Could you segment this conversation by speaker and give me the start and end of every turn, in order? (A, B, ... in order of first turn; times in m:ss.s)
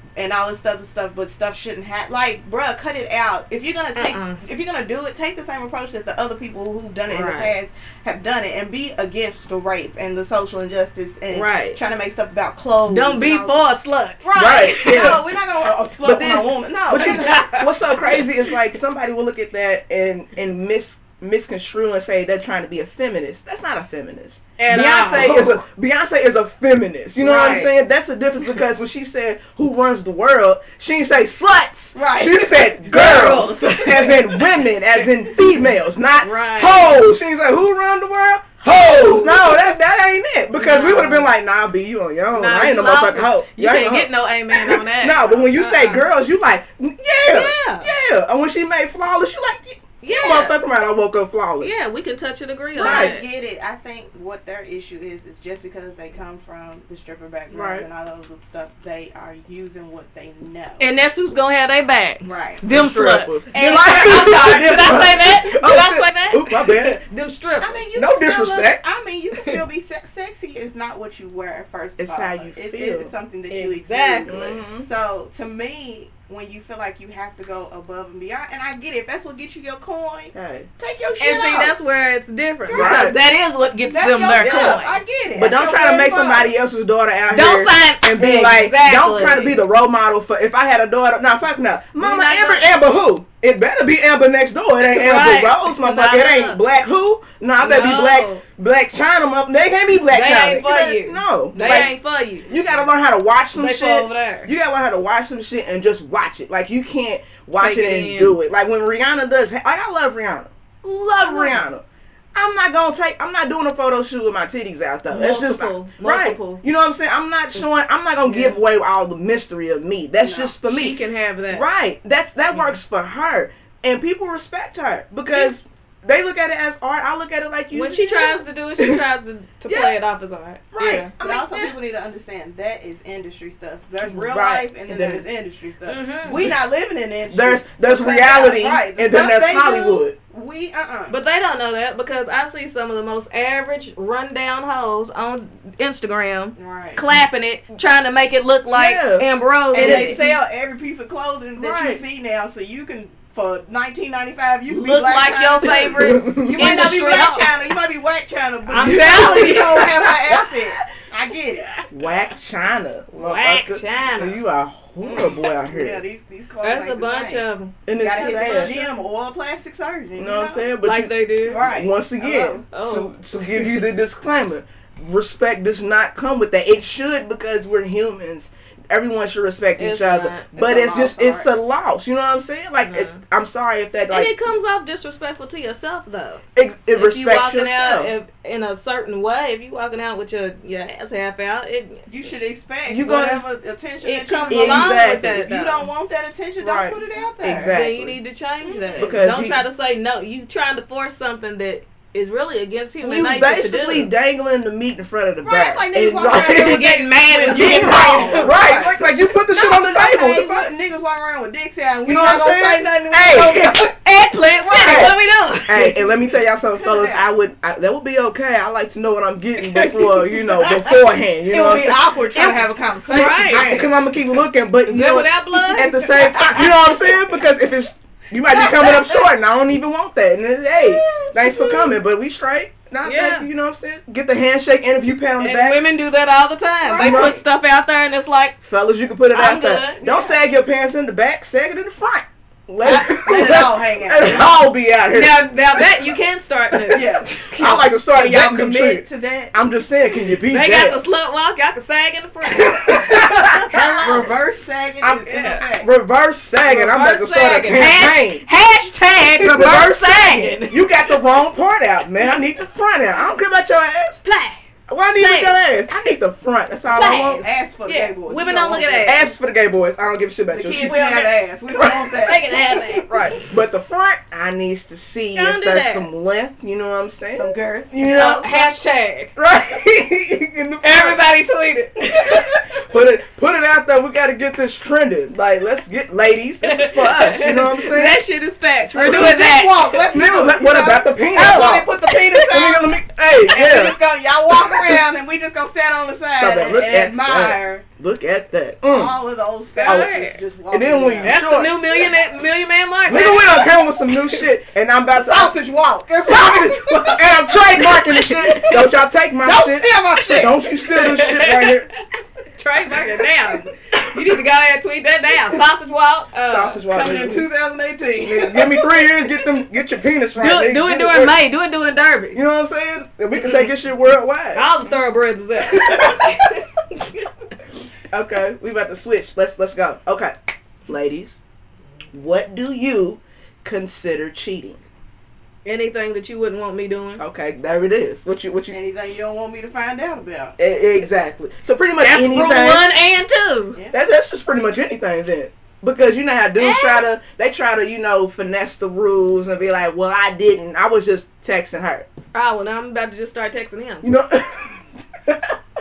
0:00.2-0:13.6 A
0:04.0-0:04.4 B
0:07.1-0:07.5 B
0:11.3-0:11.8 B
0:12.9-0:15.2 B
0:14.2-0:17.6 A
0:14.3-0:15.2 C
0:16.0-0:51.7 C
0:17.0-0:17.9 B
0:24.6-0:25.6 B
0:25.1-0:25.5 A
0:27.2-0:27.7 A
0:27.2-0:27.7 B
0:31.9-0:33.4 A
0:32.9-0:34.4 B
0:36.2-0:37.0 B
0:38.6-0:39.6 B
0:40.6-0:41.3 B
0:42.3-0:46.0 B
0:47.2-0:47.9 B
0:50.0-0:50.6 B
0:51.6-0:53.2 B
0:52.7-1:00.8 A
0:52.8-0:53.2 C
0:57.5-0:57.9 C
1:00.8-1:07.8 B
1:02.2-1:02.6 A
1:02.7-1:07.0 C
1:07.6-1:21.8 A
1:08.0-1:08.8 C
1:12.0-1:13.1 C
1:13.5-1:14.5 B
1:14.2-1:14.8 C
1:20.3-1:20.7 C
1:21.2-1:25.0 B
1:22.6-1:23.2 A
1:22.7-1:23.2 C
1:23.8-1:26.5 A
1:24.3-1:24.8 C
1:25.3-1:51.8 C
1:27.3-1:29.6 B
1:32.0-1:32.7 B
1:34.8-1:36.6 B
1:37.6-1:38.4 B
1:40.1-1:42.5 B
1:41.6-1:41.9 A
1:43.5-1:44.5 B
1:47.6-1:48.4 B
1:51.0-1:51.6 B
1:52.3-2:09.0 C
1:55.1-1:56.6 B
2:00.2-2:00.5 A
2:00.6-2:01.7 B
2:02.5-2:02.8 B
2:07.7-2:11.6 B
2:09.7-2:10.0 C
2:10.8-2:11.7 C
2:10.8-2:21.2 A
2:14.0-2:15.2 C
2:15.8-2:16.5 B
2:17.3-2:20.1 C
2:21.1-2:30.3 B
2:26.6-2:27.0 A
2:28.7-2:30.4 C
2:29.7-2:41.8 A
2:31.6-2:32.0 C
2:34.7-2:37.5 B
2:35.8-2:37.2 C
2:38.7-2:39.9 B
2:38.7-2:40.8 C
2:41.9-2:46.0 C
2:43.1-2:44.4 B
2:45.0-2:50.7 A
2:46.6-2:48.9 B
2:47.8-2:48.8 C
2:50.2-3:04.3 C
2:50.8-2:51.6 B
2:51.4-2:52.6 A
2:52.7-2:53.8 B
2:59.8-3:00.5 B
3:00.5-3:01.5 A
3:02.8-3:03.2 B
3:04.1-3:12.1 B
3:06.5-3:08.1 C
3:12.1-3:17.7 A
3:12.9-3:13.4 C
3:14.0-3:15.9 B
3:14.5-3:15.4 C
3:16.6-3:18.2 C
3:17.7-3:24.1 B
3:18.6-3:19.1 A
3:19.0-3:19.6 C
3:23.0-3:26.9 C
3:25.4-3:29.0 A
3:26.3-3:28.5 B
3:27.5-3:30.7 C
3:29.5-3:33.9 A
3:32.0-3:35.1 C
3:34.3-3:36.0 B
3:34.6-3:35.1 A
3:35.7-3:42.0 C
3:36.7-3:37.3 A
3:39.6-3:41.0 B
3:41.5-3:43.9 A
3:42.3-3:43.8 B
3:43.1-3:55.8 C
3:44.9-3:46.9 B
3:48.5-3:49.2 B
3:53.0-3:53.5 B
3:55.4-3:58.6 B
3:56.9-3:57.3 A
3:56.9-3:57.4 C
3:58.6-4:05.8 C
3:59.3-4:00.3 B
4:02.8-4:04.5 A
4:05.1-4:07.8 B
4:06.8-4:11.0 C
4:06.9-4:07.5 A
4:08.1-4:09.5 A
4:10.4-4:14.3 B
4:12.5-4:14.1 C
4:13.5-4:15.9 A
4:15.0-4:18.4 C
4:15.3-4:15.6 B
4:16.6-4:20.8 B
4:19.3-4:24.2 C
4:24.2-4:24.6 B
4:24.9-4:27.4 C
4:25.2-4:25.6 B
4:26.9-4:29.3 A
4:26.9-4:29.2 B
4:29.0-4:38.7 C
4:30.5-4:32.5 A
4:32.2-4:33.1 B
4:35.3-4:36.1 B
4:37.4-4:37.9 A
4:38.0-4:39.3 B
4:39.3-4:41.2 C
4:40.8-4:42.6 B
4:42.1-4:48.2 C
4:46.6-4:50.1 B
4:48.9-4:52.8 A
4:50.1-4:54.0 C
4:51.3-4:52.3 B
4:53.4-4:57.8 A
4:56.4-4:59.2 C
4:56.7-4:57.1 B
4:58.9-5:01.4 A
4:59.7-5:00.4 B
4:59.8-5:00.1 C
5:00.7-5:01.8 C
5:01.2-5:03.8 B
5:03.0-5:05.5 C
5:05.3-5:07.0 A
5:06.2-5:11.9 C
5:07.8-5:08.9 B
5:09.5-5:10.5 A
5:09.5-5:11.8 B
5:12.5-5:17.3 B
5:16.5-5:17.5 C
5:16.9-5:18.6 A
5:18.2-5:21.4 C
5:20.4-5:22.4 B
5:22.3-5:24.6 C
5:23.3-5:23.7 B
5:24.5-5:26.6 B
5:25.7-5:26.5 C
5:28.1-5:30.4 C
5:30.9-5:31.4 C
5:32.1-5:34.8 C
5:35.6-5:37.2 B
5:37.2-5:38.8 C
5:38.7-5:40.5 A
5:40.6-5:42.9 C
5:42.0-5:43.8 B
5:43.9-5:52.1 C
5:46.6-5:47.0 B
5:52.3-5:54.1 B
5:54.0-5:55.5 C